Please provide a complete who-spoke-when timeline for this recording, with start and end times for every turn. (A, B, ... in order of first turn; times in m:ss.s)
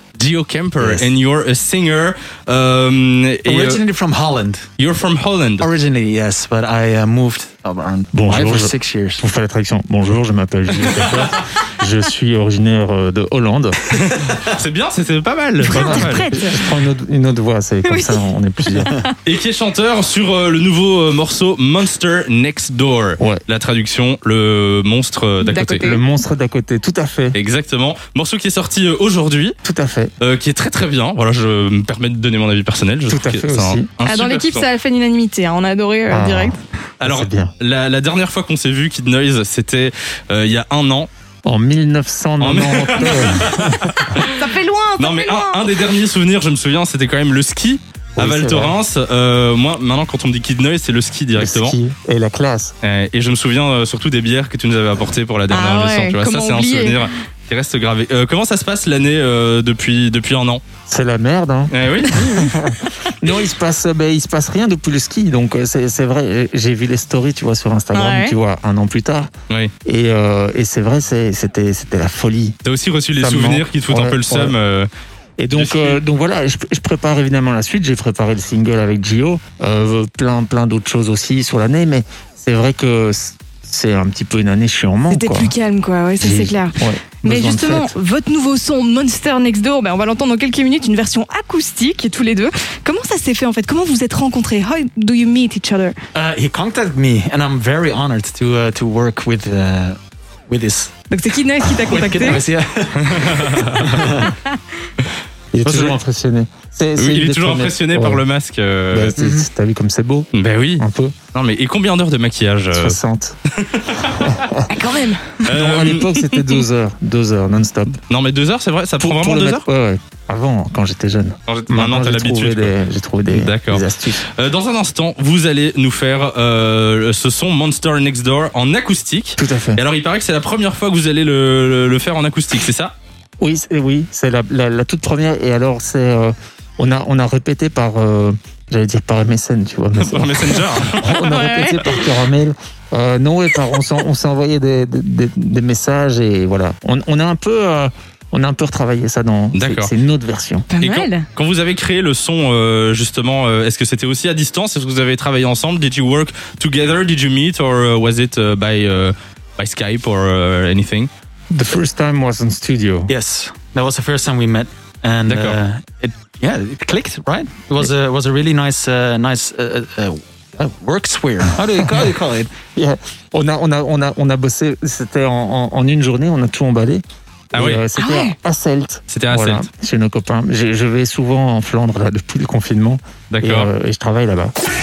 0:00.2-0:03.8 A
0:00.8-0:01.1 B
0:03.5-0:04.7 B
0:04.8-0:05.7 A
0:05.6-0:09.2 B
0:08.1-0:13.8 C
0:13.9-0:16.3 A
0:15.6-0:18.9 C
0:15.7-0:16.7 D
0:17.8-0:19.1 D
0:19.2-0:25.9 A
0:25.4-0:26.0 D
0:25.5-0:27.4 C
0:27.3-0:29.6 A
0:29.6-0:30.1 C
0:30.2-0:34.7 A
0:33.1-0:33.9 C
0:34.0-0:36.6 D
0:36.1-0:37.5 C
0:37.0-0:41.1 A
0:41.4-0:43.9 C
0:42.4-0:44.4 A
0:44.3-0:45.7 D
0:45.0-0:51.8 A
0:48.2-0:48.8 C
0:51.4-0:52.8 C
0:52.8-1:00.6 A
0:55.5-0:57.1 D
1:00.9-1:09.3 C
1:01.7-1:02.3 A
1:07.9-1:08.4 D
1:09.8-1:12.6 C
1:12.6-1:14.9 A
1:13.2-1:14.6 C
1:15.4-1:25.5 C
1:15.5-1:16.0 A
1:25.1-1:36.0 D
1:26.2-1:27.9 C
1:36.1-1:40.0 B
1:40.5-1:40.9 B
1:41.1-1:42.4 D
1:41.7-1:44.3 B
1:43.0-1:44.3 A
1:45.5-1:48.2 C
1:45.6-1:46.0 B
1:47.0-1:49.1 A
1:48.9-1:51.2 C
1:49.2-1:49.5 B
1:50.3-1:53.0 A
1:52.7-1:53.4 C
1:53.6-1:54.4 A
1:54.1-1:54.7 C
1:54.7-1:55.4 D
1:55.4-1:56.4 A
1:55.5-1:58.0 C
1:58.1-1:59.7 A
1:59.0-2:04.3 C
2:01.5-2:02.8 A
2:03.3-2:12.9 A
2:09.4-2:09.8 C
2:13.4-2:30.7 C
2:20.0-2:21.3 A
2:21.3-2:21.9 D
2:29.5-2:29.9 A
2:30.7-2:31.3 D
2:30.8-2:41.1 A
2:41.5-2:43.1 C
2:43.1-2:52.5 B
2:45.3-2:45.6 A
2:52.7-2:57.0 C
2:57.5-2:57.8 A
2:57.5-3:04.5 C
2:58.0-2:58.4 D
2:59.1-2:59.7 A
3:03.3-3:03.7 A